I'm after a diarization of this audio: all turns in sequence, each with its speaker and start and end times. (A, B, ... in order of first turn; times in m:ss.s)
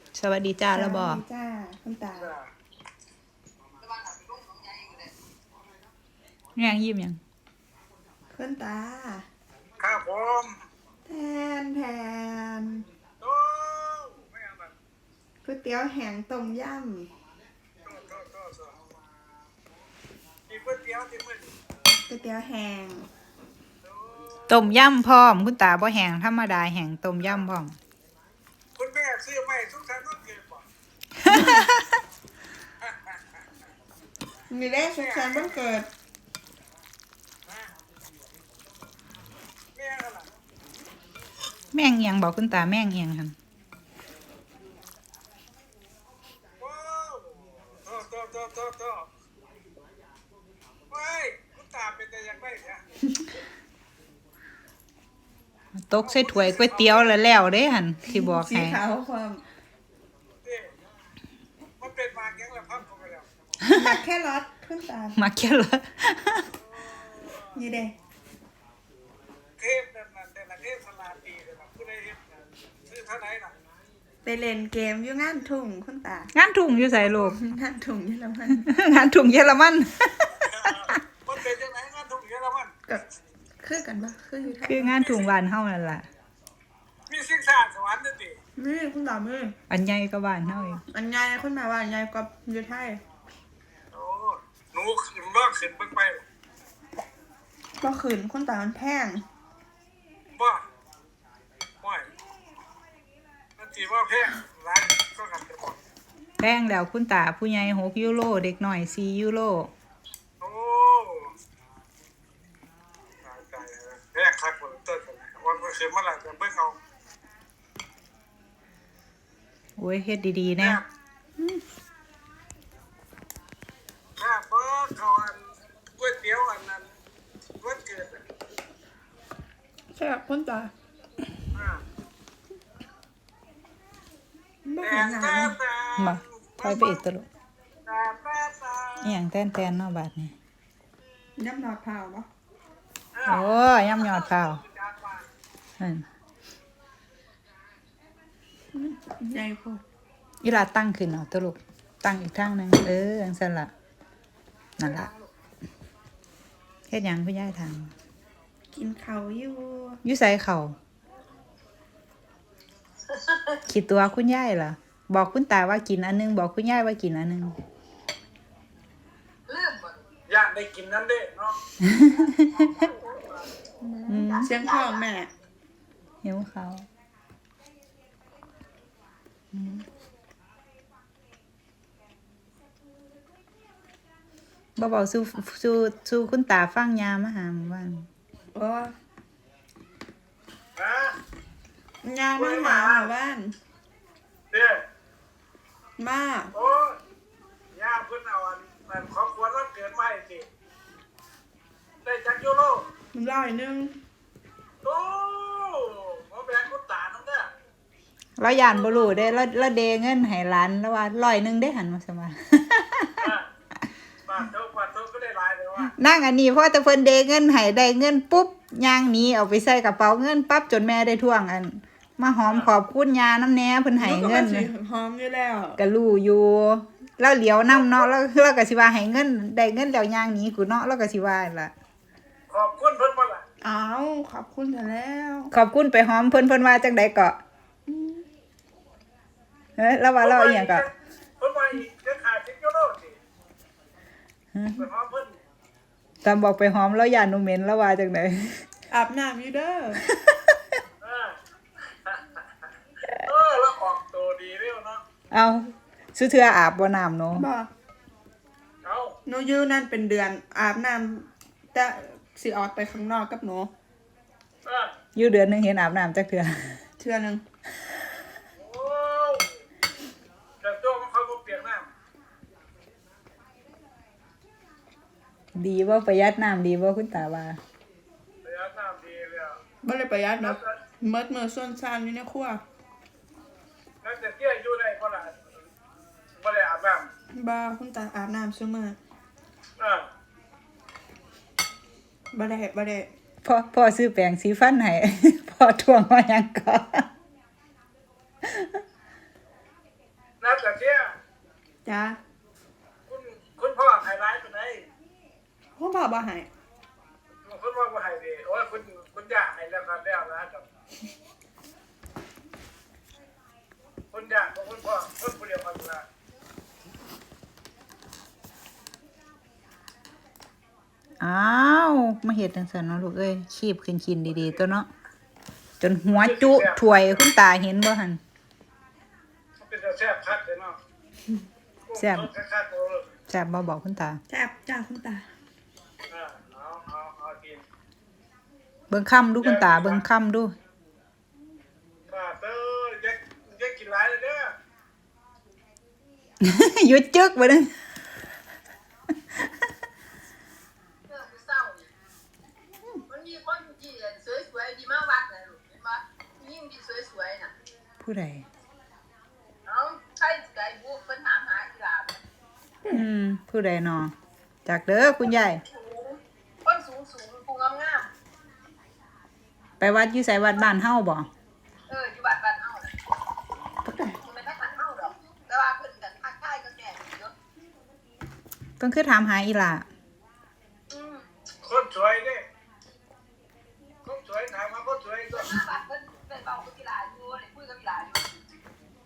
0:00.1-0:01.2 A
0:00.7-0:02.3 B
0:02.1-0:02.5 C
0:03.8-0:05.1 D
0:06.6-0:07.2 A
0:08.3-0:09.3 B
0:09.8-0:10.5 C
0:11.1-0:12.8 B
0:13.2-0:14.7 C
0:15.4-0:17.1 B
0:17.8-0:18.8 C
0:20.5-0:21.5 C
0:22.1-0:23.1 B
0:23.8-0:24.7 C
0:24.5-0:27.8 A
0:27.2-0:27.5 C
0:28.8-0:30.6 C
0:31.2-0:31.9 A
0:31.3-0:31.7 B
0:32.8-0:33.2 C
0:34.5-0:35.9 B
0:34.9-0:35.6 C
0:39.8-0:40.3 C
0:41.7-0:43.4 A
0:46.6-0:49.1 C
0:50.9-0:52.8 C
0:55.8-0:58.8 A
0:56.0-0:57.2 C
0:58.1-0:59.4 B
1:00.4-1:00.7 C
1:01.8-1:03.3 C
1:03.6-1:03.9 A
1:03.7-1:05.2 B
1:05.2-1:06.5 A
1:06.5-1:07.6 C
1:07.5-1:07.9 B
1:09.6-1:12.3 C
1:12.9-1:13.6 C
1:14.2-1:16.3 B
1:16.3-1:17.4 A
1:17.1-1:18.7 B
1:18.6-1:20.9 A
1:20.4-1:22.7 C
1:23.6-1:25.0 B
1:24.6-1:26.1 A
1:25.0-1:25.3 C
1:27.1-1:28.4 C
1:28.6-1:29.6 B
1:29.7-1:30.8 A
1:30.9-1:33.0 B
1:33.9-1:36.2 C
1:37.8-1:39.2 B
1:40.3-1:40.6 C
1:41.8-1:42.1 C
1:43.6-1:45.8 C
1:46.4-1:49.7 A
1:50.4-1:51.3 C
1:53.2-1:56.8 C
1:59.8-2:00.8 A
2:00.6-2:00.8 C
2:04.2-2:05.4 C
2:06.0-2:07.0 C
2:07.6-2:08.2 C
2:09.9-2:10.7 B
2:11.5-2:11.8 C
2:14.6-2:15.6 B
2:14.8-2:17.0 C
2:16.0-2:17.3 A
2:17.9-2:19.2 C
2:19.0-2:20.3 A
2:21.4-2:22.3 B
2:23.2-2:25.3 C
2:23.3-2:24.6 A
2:25.8-2:26.1 A
2:28.7-2:29.8 B
2:30.4-2:33.7 A
2:34.8-2:35.1 A
2:36.9-2:37.9 A
2:38.7-2:40.0 B
2:40.0-2:40.8 A
2:43.1-2:43.6 D
2:43.7-2:47.6 A
2:49.5-2:50.1 D
2:50.3-2:51.6 C
2:51.8-2:52.5 A
2:52.5-2:53.5 D
2:53.8-2:55.3 B
2:54.0-2:55.1 D
2:54.1-2:54.5 A
2:56.2-2:56.8 A
2:59.5-2:59.8 A
3:04.8-3:08.1 A
3:08.5-3:08.9 B
3:10.8-3:11.2 C
3:12.0-3:13.6 B
3:12.4-3:13.1 C
3:14.5-3:14.8 C
3:16.0-3:16.5 B
3:16.5-3:17.0 C
3:17.7-3:20.5 C
3:22.0-3:22.9 C
3:23.1-3:24.0 B
3:24.8-3:27.5 C
3:28.4-3:33.3 A
3:28.7-3:29.4 C
3:33.2-3:33.5 C
3:34.3-3:36.0 C
3:36.0-3:44.7 A
3:44.0-3:45.8 B
3:45.8-3:51.7 A
3:47.7-3:48.1 C
3:52.5-3:53.4 C
3:53.6-3:55.5 B
3:55.5-3:57.4 A
3:57.9-3:58.3 B
3:59.8-4:00.9 A
4:00.2-4:03.2 C
4:04.8-4:05.4 C
4:06.2-4:08.6 A
4:08.9-4:10.0 B
4:10.1-4:10.4 A
4:11.0-4:11.4 C
4:13.2-4:15.0 C
4:15.3-4:17.5 A
4:17.4-4:17.7 B
4:18.8-4:19.2 C
4:19.3-4:23.7 B
4:24.6-4:24.9 C
4:25.2-4:26.8 A
4:27.0-4:27.4 B
4:28.6-4:29.5 C
4:30.6-4:31.9 C
4:35.5-4:37.6 A
4:38.4-4:39.6 C
4:39.8-4:42.6 B
4:40.4-4:40.8 C
4:44.0-4:45.6 C
4:46.4-4:47.1 C
4:47.3-4:49.0 B
4:49.8-4:50.1 C
4:52.3-4:53.1 B
4:53.4-4:57.1 A
5:00.4-5:01.1 C
5:01.8-5:02.2 B
5:03.1-5:04.9 C
5:05.8-5:06.5 B
5:07.4-5:10.7 C
5:14.1-5:16.0 C
5:21.2-5:24.9 A
5:24.3-5:24.6 C
5:25.8-5:28.2 A
5:26.1-5:27.3 C
5:29.6-5:30.8 C
5:31.9-5:33.2 C
5:32.0-5:32.3 A
5:33.3-5:34.2 A
5:34.3-5:35.3 B
5:36.1-5:37.6 C
5:38.9-5:40.6 A
5:39.4-5:40.0 C
5:42.1-5:44.5 C
5:46.4-5:47.7 A
5:51.1-5:51.9 D
5:53.1-5:57.5 D
5:58.0-5:58.4 A
5:59.6-6:02.2 D
6:02.9-6:04.1 A
6:04.6-6:05.6 A
6:05.3-6:08.1 D
6:09.8-6:11.3 A
6:11.9-6:12.9 D
6:13.8-6:14.2 B
6:14.2-6:17.3 D
6:18.8-6:19.8 A
6:20.9-6:21.3 D
6:21.6-6:22.4 C
6:24.0-6:25.6 C
6:25.3-6:28.3 D